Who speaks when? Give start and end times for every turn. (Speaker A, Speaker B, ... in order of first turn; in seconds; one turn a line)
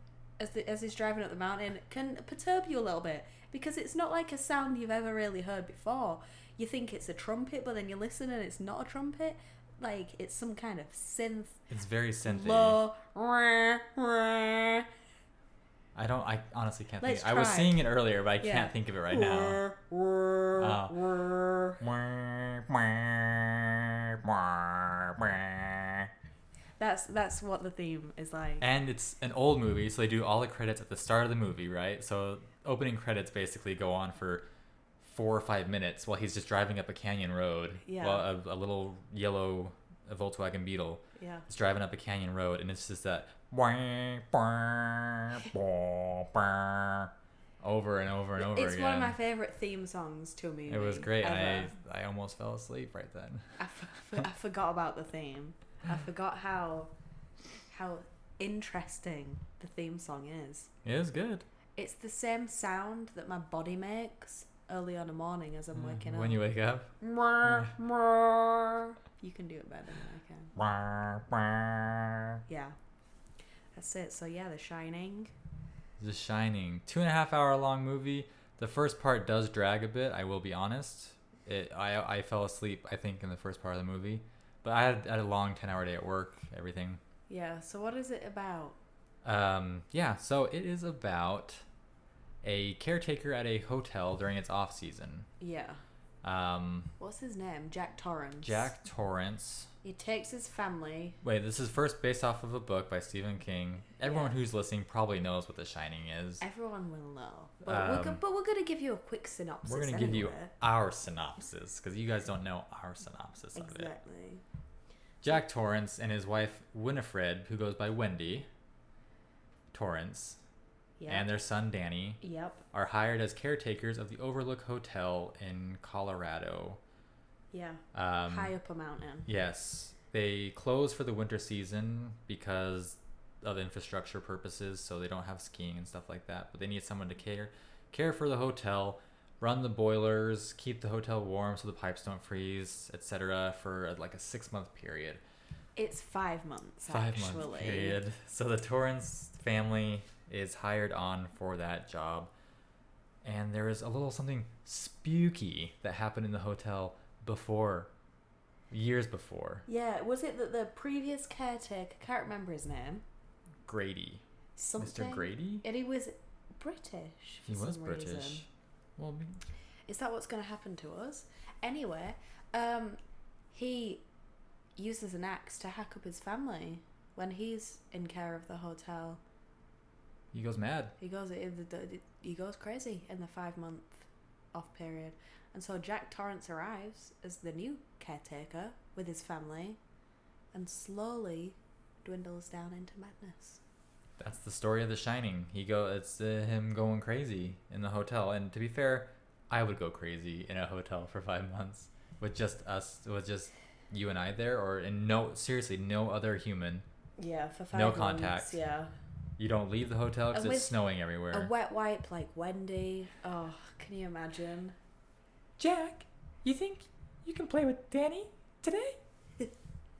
Speaker A: 0.4-11.6
Speaker B: 11.7-12.8
Speaker A: 12.2-14.9
Speaker B: 15.9-19.6
Speaker A: 17.0-17.9
Speaker A: 18.4-21.8
Speaker B: 20.6-21.0
Speaker B: 21.8-26.1
Speaker A: 26.8-28.7
Speaker B: 28.6-34.5
Speaker B: 35.0-49.2
Speaker A: 37.8-38.3
Speaker A: 41.2-41.5
Speaker A: 48.4-51.7
Speaker B: 50.7-53.6
Speaker A: 53.6-56.9
Speaker A: 57.7-60.7
Speaker B: 60.8-61.5
Speaker A: 61.8-66.4
Speaker B: 65.7-67.8
Speaker A: 67.0-70.5
Speaker B: 70.6-72.4
Speaker A: 72.5-72.8
Speaker A: 73.8-75.3
Speaker B: 76.0-87.0
Speaker A: 87.3-88.8
Speaker B: 89.2-91.7
Speaker B: 92.4-95.3
Speaker A: 95.4-95.8
Speaker B: 96.2-96.9
Speaker A: 97.0-98.7
Speaker B: 98.4-99.7
Speaker A: 99.8-101.2
Speaker B: 101.2-106.4
Speaker A: 104.0-104.3
Speaker A: 106.4-110.5
Speaker B: 107.7-108.2
Speaker B: 109.7-113.9
Speaker A: 113.5-114.4
Speaker B: 115.2-118.5
Speaker B: 119.7-120.4
Speaker A: 121.0-121.4
Speaker B: 121.1-126.8
Speaker A: 122.2-122.7
Speaker A: 127.5-129.3
Speaker B: 127.9-128.5
Speaker B: 129.3-145.2
Speaker A: 145.8-148.0
Speaker B: 146.9-152.3
Speaker B: 153.2-157.9
Speaker B: 158.7-159.7
Speaker A: 159.7-163.0
Speaker B: 163.7-164.2
Speaker A: 164.6-168.5
Speaker B: 164.8-165.7
Speaker B: 167.5-169.4
Speaker A: 169.9-173.0
Speaker A: 173.5-174.1
Speaker A: 174.8-179.2
Speaker B: 180.3-180.9
Speaker A: 181.0-189.8
Speaker A: 190.5-193.6
Speaker B: 194.2-206.9
Speaker A: 207.2-208.9
Speaker B: 207.7-208.6
Speaker B: 209.4-211.5
Speaker A: 210.3-210.8
Speaker A: 211.3-214.8
Speaker B: 215.6-219.0